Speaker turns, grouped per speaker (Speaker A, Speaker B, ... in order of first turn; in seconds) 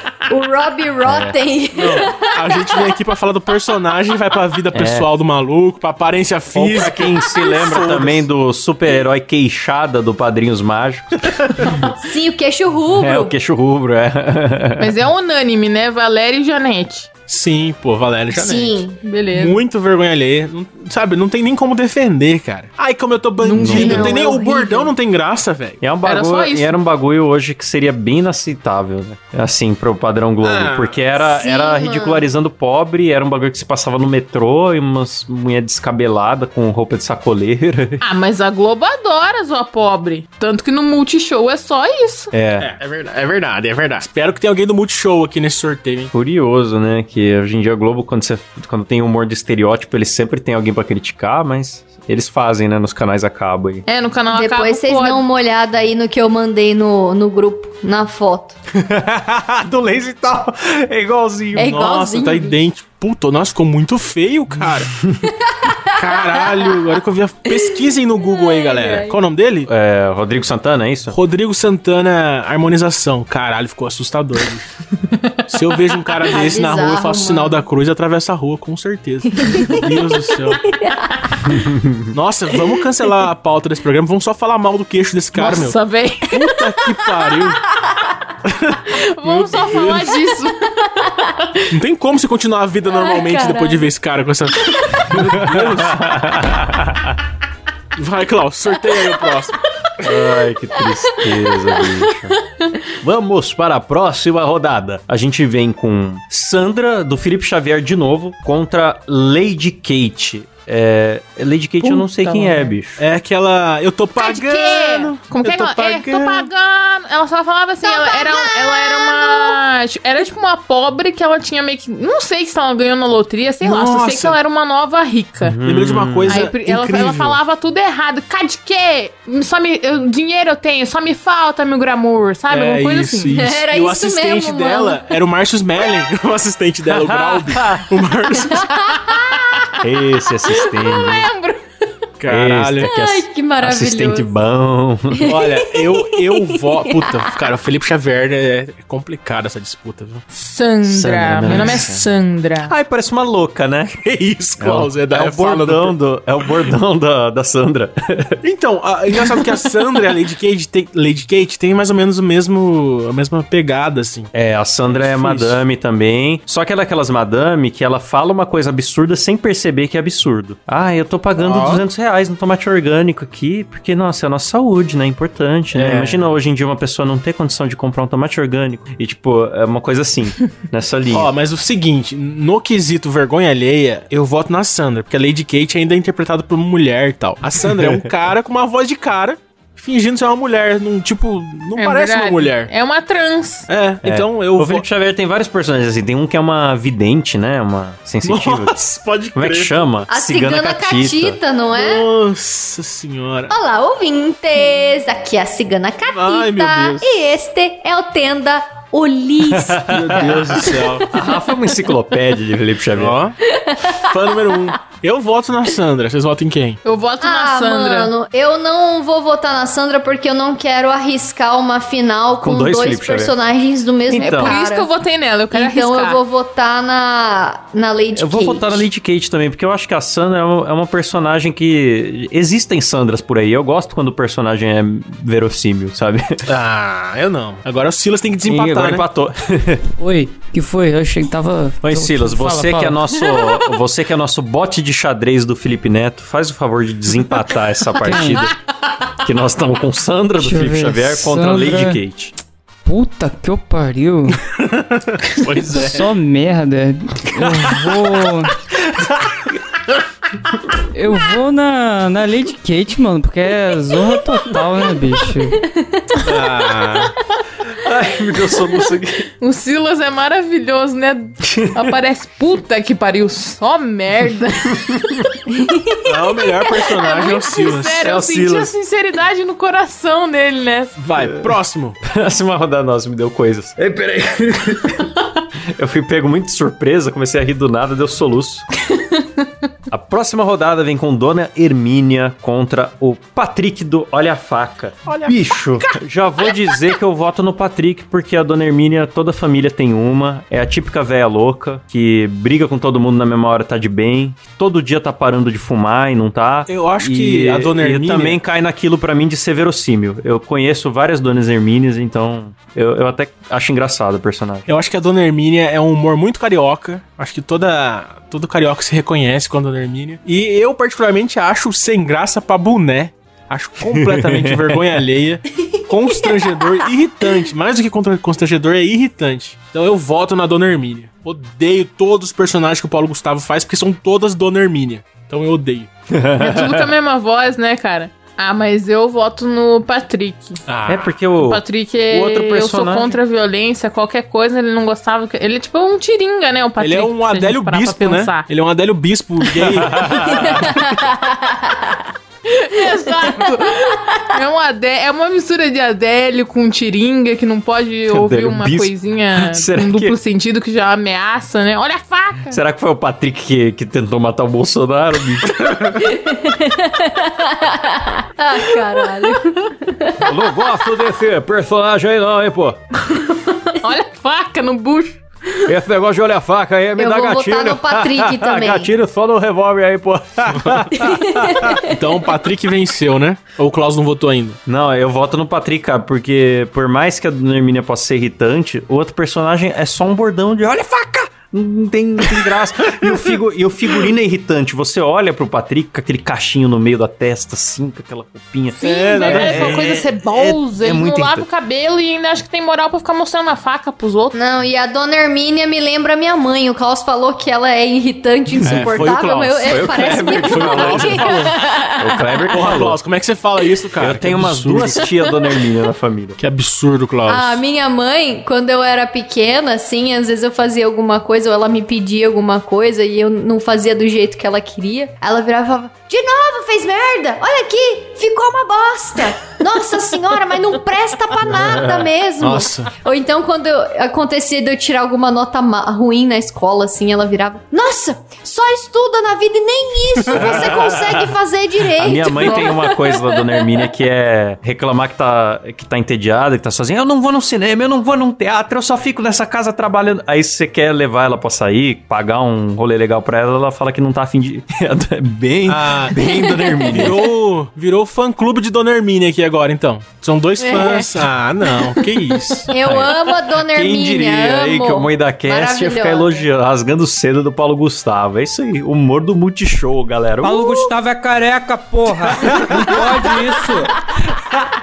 Speaker A: 0.3-2.9, 11.7-13.3, 18.3-19.0, 23.7-24.9, 31.2-32.3, 54.3-58.6, 61.6-62.6, 65.5-66.7, 68.2-69.2, 76.2-77.7, 79.4-79.9, 80.6-81.4, 92.9-93.9, 117.8-119.6, 133.3-135.0, 138.4-139.5, 142.8-144.3, 145.2-147.2, 200.1-202.1, 203.5-211.4, 213.5-214.7, 217.2-224.9, 225.5-228.8, 275.6-276.0, 350.4-352.0, 352.8-354.0, 366.0-370.3, 377.0-378.9, 381.0-381.9, 404.3-412.4, 417.3-443.4, 456.2-457.0, 460.7-461.1, 462.7-466.4
Speaker B: 1.1-1.4, 4.7-5.1, 6.5-11.9, 13.0-14.9, 23.6-24.1, 25.8-38.0, 42.3-42.7, 46.1-53.9, 58.7-61.8, 69.7-71.2, 81.5-82.1, 95.1-97.2, 100.0-102.4, 103.0-113.0, 125.4-126.5, 136.9-137.9, 139.8-141.3, 142.3-145.3, 150.8-152.1, 152.6-158.4, 164.3-181.3, 187.8-188.1, 194.0-198.8, 199.3-201.4, 209.5-213.2, 222.4-223.3, 224.1-224.6, 228.2-236.5, 238.5-239.8, 241.8-248.6, 249.2-252.3, 258.9-259.8, 267.7-269.3, 271.4-271.9, 274.7-275.2, 278.0-278.7, 281.4-288.7, 289.9-314.7, 323.9-324.9, 336.1-336.9, 340.9-343.1, 349.6-350.7, 358.1-360.2, 362.5-366.1, 370.2-372.8, 375.7-381.9, 384.7-401.5, 408.6-409.0, 409.6-413.0, 414.0-416.4, 431.5-432.1, 440.3-441.3, 442.0-457.3, 462.8-470.8, 472.3-473.2
Speaker C: 1.8-8.3, 17.3-18.8, 19.3-25.8, 30.4-31.0, 42.6-46.1, 61.6-65.0, 65.9-69.7, 71.1-74.7, 75.5-80.7, 82.1-85.8, 86.3-87.6, 88.4-90.1, 91.7-96.2, 98.0-99.6, 113.0-116.5, 123.6-124.4, 125.6-127.4, 132.5-138.9, 142.2-142.9, 145.2-150.2, 151.5-151.8, 154.2-156.0, 158.4-164.3, 164.9-165.6, 171.4-171.8, 175.7-176.3, 181.1-192.7, 193.7-194.8, 198.2-199.9, 201.7-203.6, 206.1-207.1, 209.9-211.1, 212.9-216.8, 236.5-239.0, 254.5-256.1, 266.2-267.1, 276.1-278.1, 281.0-282.0, 295.1-296.0, 306.7-308.4, 314.7-335.9, 340.7-341.1, 346.8-350.7, 381.8-384.6, 398.8-400.0, 408.6-411.6, 412.5-415.1, 416.4-417.6, 432.4-432.9, 440.3-440.6, 455.7-456.2, 456.9-462.7
Speaker D: 14.8-17.1, 19.0-19.6, 23.4-24.6, 26.1-26.7, 38.0-42.3, 53.9-55.2, 85.3-86.5, 88.9-91.6, 111.8-112.8, 114.2-125.6, 126.3-133.4, 139.1-139.7, 140.5-141.6, 150.3-152.7, 191.8-193.7, 216.8-218.1, 224.2-226.2, 269.4-275.0, 276.9-281.0, 336.4-340.6, 341.4-348.5, 352.5-362.6, 373.8-375.2, 398.8-404.4
Speaker E: 240.0-243.0, 248.0-248.5, 250.4-252.0, 252.8-254.4, 255.6-258.6, 260.9-265.6, 470.4-473.9